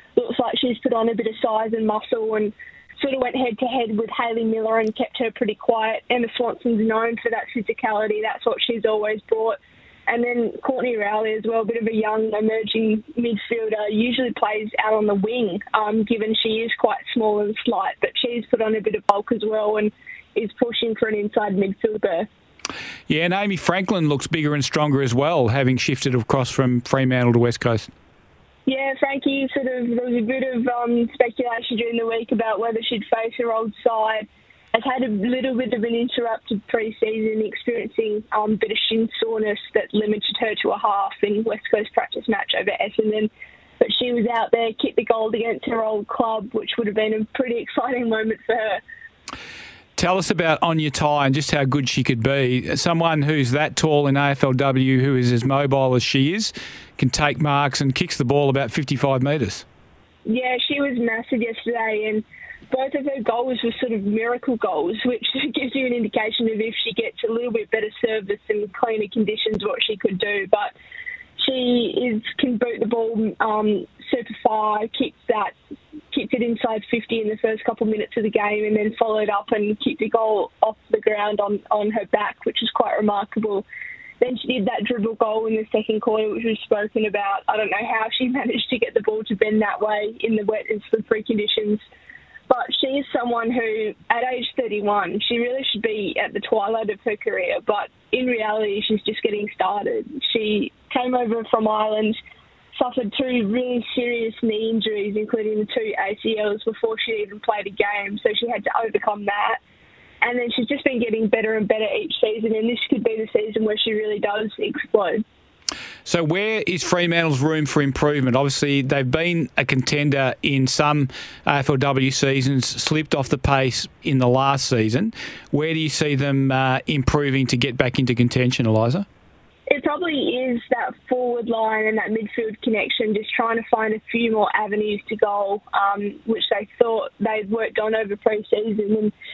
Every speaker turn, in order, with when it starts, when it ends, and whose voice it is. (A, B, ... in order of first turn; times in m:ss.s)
0:00.2-0:22.3 A
0:23.1-0:27.9 B
0:28.6-0:48.8 A
0:50.0-0:59.6 B
1:00.2-1:10.7 A
1:11.4-1:15.5 A
1:16.1-1:23.6 A
1:24.2-1:31.8 A
1:32.5-1:42.2 A
1:42.7-1:49.6 A
1:50.2-1:55.2 A
1:56.0-2:09.0 B
2:09.7-2:19.1 A